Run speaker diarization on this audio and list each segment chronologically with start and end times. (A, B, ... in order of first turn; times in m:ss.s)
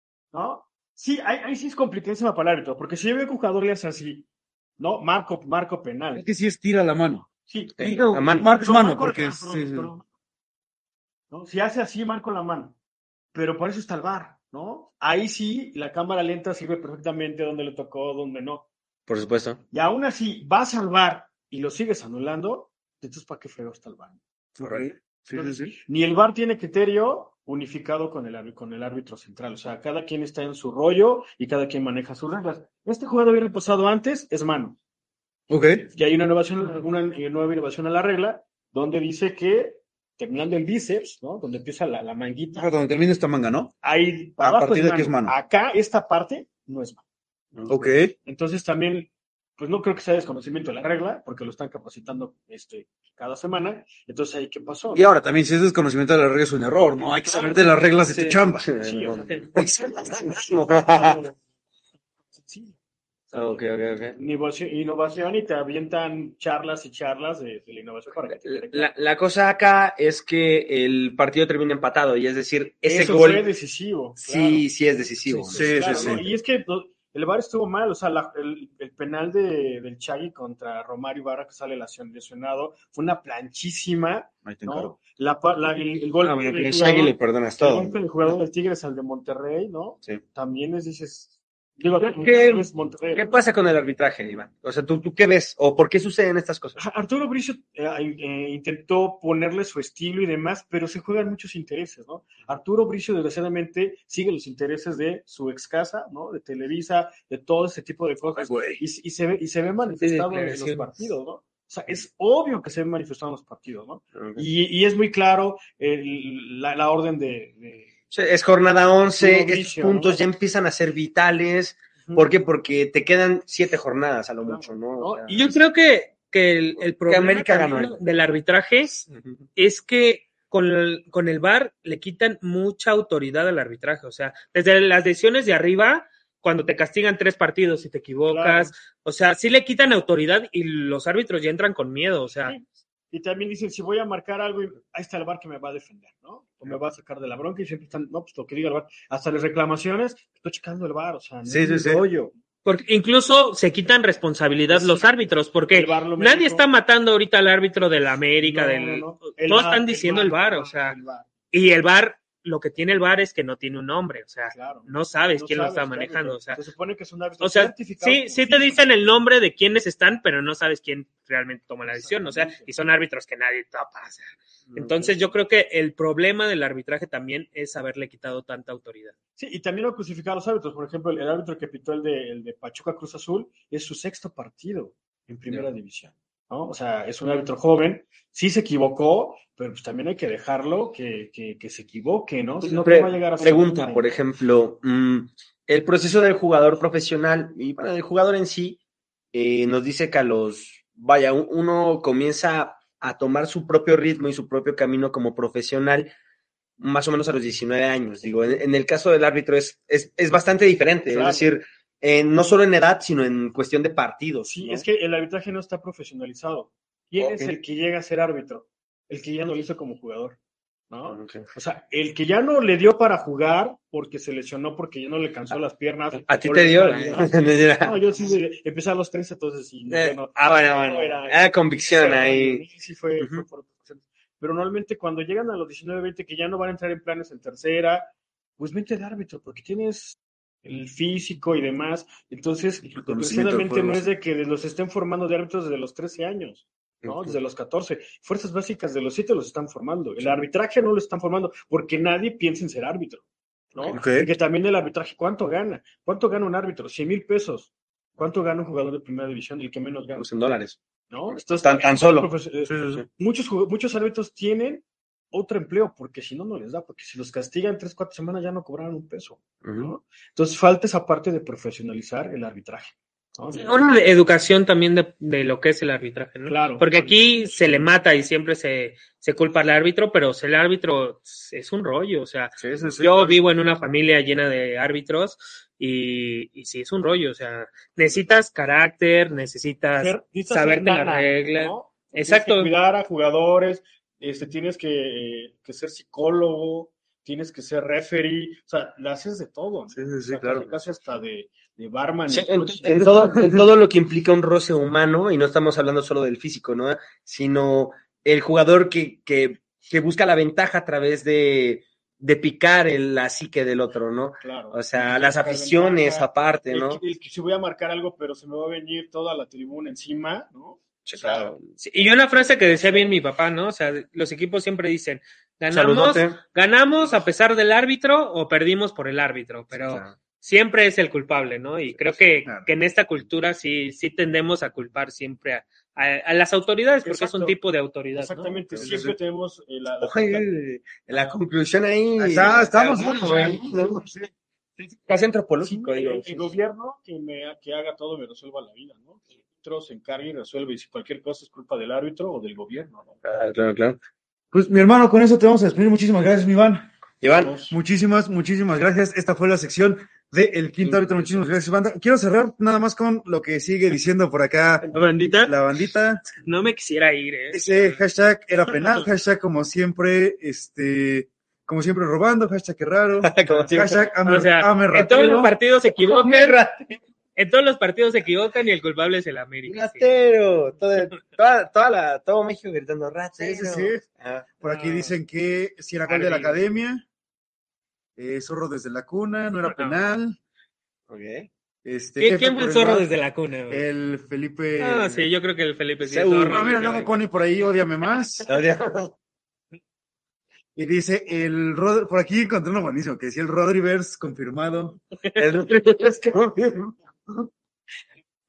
0:00.3-0:04.3 A
0:04.8-0:06.3 A
0:06.2-0:07.3 B
0:07.5-0:10.0 A
0:07.8-0:08.5 C
0:07.8-0:09.9 B
0:11.3-0:12.8 A
0:13.3-0:18.7 A
0:19.1-0:19.6 C
0:19.7-0:24.2 A
0:24.6-0:25.7 B
0:25.3-0:34.8 A
0:35.5-0:35.9 B
0:35.9-0:42.7 A
0:42.6-0:43.7 B
0:43.8-0:47.0 A
0:44.4-0:45.4 B
0:47.6-0:55.0 A
0:47.7-0:48.1 B
0:54.9-0:58.7 B
0:58.1-1:01.2 C
0:58.8-0:59.5 A
1:00.9-1:01.4 A
1:02.5-1:02.8 A
1:03.3-1:03.6 A
1:03.3-1:04.2 C
1:04.2-1:08.9 A
1:08.3-1:13.5 C
1:12.9-1:14.6 A
1:14.2-1:16.3 C
1:15.2-1:33.2 A
1:15.5-1:16.2 B
1:24.5-1:25.0 B
1:26.2-1:28.0 C
1:32.0-1:36.8 C
1:36.8-1:57.9 A
1:48.4-1:48.8 B
1:50.0-1:50.9 D
1:54.2-1:54.5 C
1:58.1-2:05.4 C
1:59.1-2:00.2 A
2:04.4-2:05.4 A
2:05.3-2:08.9 D
2:07.1-2:08.0 C
2:09.1-2:09.4 C
2:09.6-2:22.6 D
2:18.3-2:18.7 A
2:22.5-2:32.4 A
2:31.5-2:32.0 B
2:32.6-2:41.0 D
2:34.7-2:35.1 A
2:35.7-2:36.6 A
2:38.4-2:41.3 A
2:41.5-2:46.6 D
2:44.5-2:49.2 A
2:47.4-2:59.1 D
2:51.9-2:52.7 A
2:54.7-2:55.3 C
2:59.4-3:14.0 A
3:12.6-3:18.8 C
3:19.3-3:26.1 C
3:26.8-3:34.8 C
3:31.1-3:31.5 A
3:34.4-3:40.4 A
3:37.2-3:37.5 C
3:40.9-4:20.3 A
3:41.1-3:41.5 C
3:46.3-3:48.0 C
3:49.9-3:52.6 C
3:53.2-3:53.4 C
4:03.0-4:04.1 B
4:07.0-4:07.3 C
4:14.0-4:14.3 B
4:20.2-4:20.8 C
4:21.1-4:33.8 A
4:21.3-4:22.3 C
4:22.7-4:23.0 B
4:29.6-4:29.9 C
4:33.6-4:52.7 D
4:36.5-4:37.2 A
4:42.7-4:43.4 B
4:50.0-5:03.1 A
4:59.9-5:00.7 B
5:02.3-5:17.0 C
5:14.4-5:21.5 A
5:21.1-5:21.6 C
5:21.8-5:38.6 D
5:25.7-5:26.4 C
5:29.8-5:30.1 C
5:31.9-5:32.7 B
5:37.0-5:37.6 A
5:38.2-5:40.5 A
5:38.7-5:39.2 B
5:40.0-5:44.1 C
5:42.2-5:44.3 B
5:44.8-5:46.5 C
5:45.6-5:53.2 A
5:53.2-5:54.0 C
5:54.5-5:56.9 B
5:57.2-5:57.6 C
5:57.4-5:57.7 A
5:57.7-6:06.2 B
6:04.8-6:05.5 D
6:06.3-6:07.7 D
6:07.5-6:15.5 B
6:13.2-6:14.0 C
6:14.2-6:16.6 D
6:16.1-6:17.0 C
6:17.4-6:20.2 D
6:19.6-6:24.5 C
6:23.4-6:24.0 B
6:24.6-6:27.0 B
6:24.6-6:25.1 D
6:26.1-6:26.6 D
6:28.2-6:30.4 B
6:29.6-6:30.0 D
6:31.1-6:31.5 C
6:31.8-6:33.1 B
6:32.2-6:33.8 D
6:33.7-6:35.3 B
6:34.8-6:36.9 D
6:36.0-6:37.1 C
6:36.5-6:38.5 B
6:38.5-6:39.1 C
6:40.8-6:45.0 B
6:45.4-6:47.5 C